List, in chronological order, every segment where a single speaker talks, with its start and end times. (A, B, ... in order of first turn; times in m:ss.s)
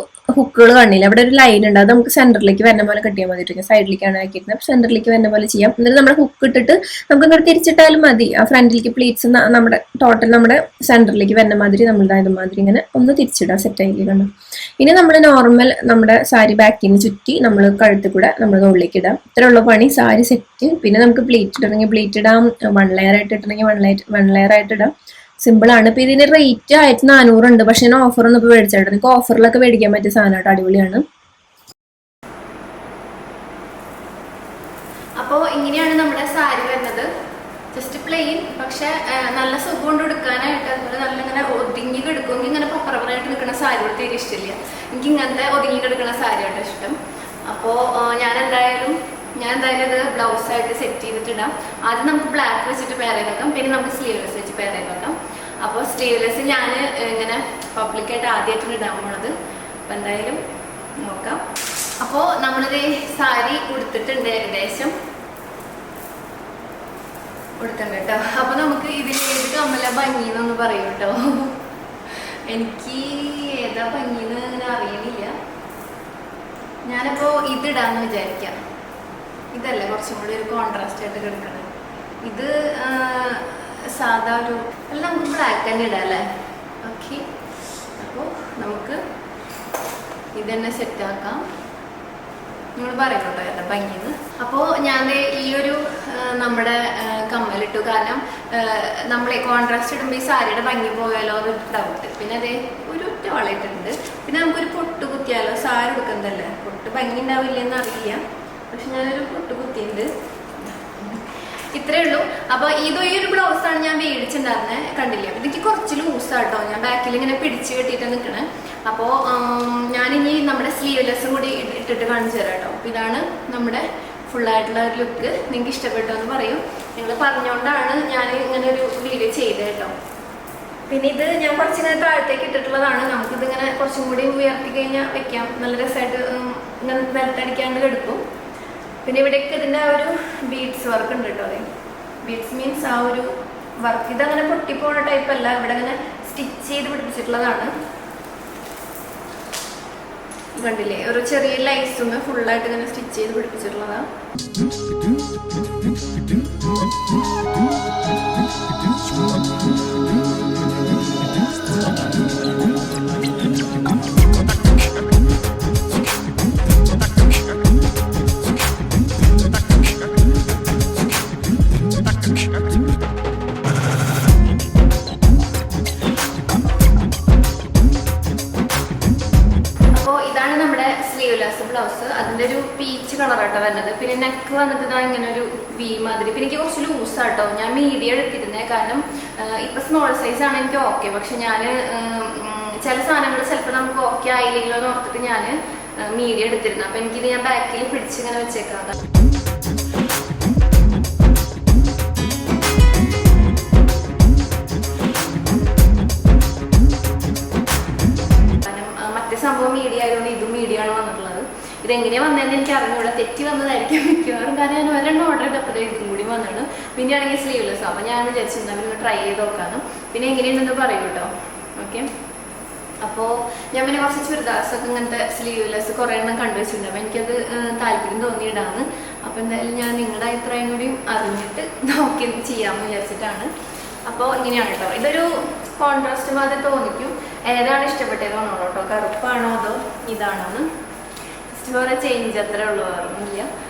0:00.4-0:00.9 A
0:00.5-0:05.2 B
0:01.6-0:09.9 A
0:05.7-0:06.6 B
0:08.8-0:14.2 B
0:10.4-0:11.0 A
0:11.6-0:12.1 A
0:12.6-0:14.2 A
0:14.8-0:16.2 B
0:15.1-0:19.4 A
0:17.6-0:21.2 B
0:20.0-0:24.9 A
0:21.8-0:22.2 B
0:24.0-0:24.6 B
0:25.4-0:31.0 A
0:35.2-0:37.1 B
0:37.7-0:59.3 B
0:59.9-1:00.4 B
1:01.0-1:01.4 B
1:02.0-1:04.9 B
1:07.6-1:11.6 B
1:12.5-1:15.3 B
1:16.8-1:18.6 B
1:19.5-1:21.7 B
1:22.2-1:26.3 B
1:26.8-1:27.3 B
1:28.0-1:29.0 B
1:30.3-1:31.5 B
1:32.8-2:09.9 B
2:10.9-2:18.2 B
2:19.0-2:21.6 B
2:22.2-2:27.7 B
2:30.6-2:34.0 B
2:59.9-3:19.0 B
3:28.6-3:42.1 B
3:43.0-3:53.5 B
3:54.0-4:00.7 B
4:01.5-4:03.5 B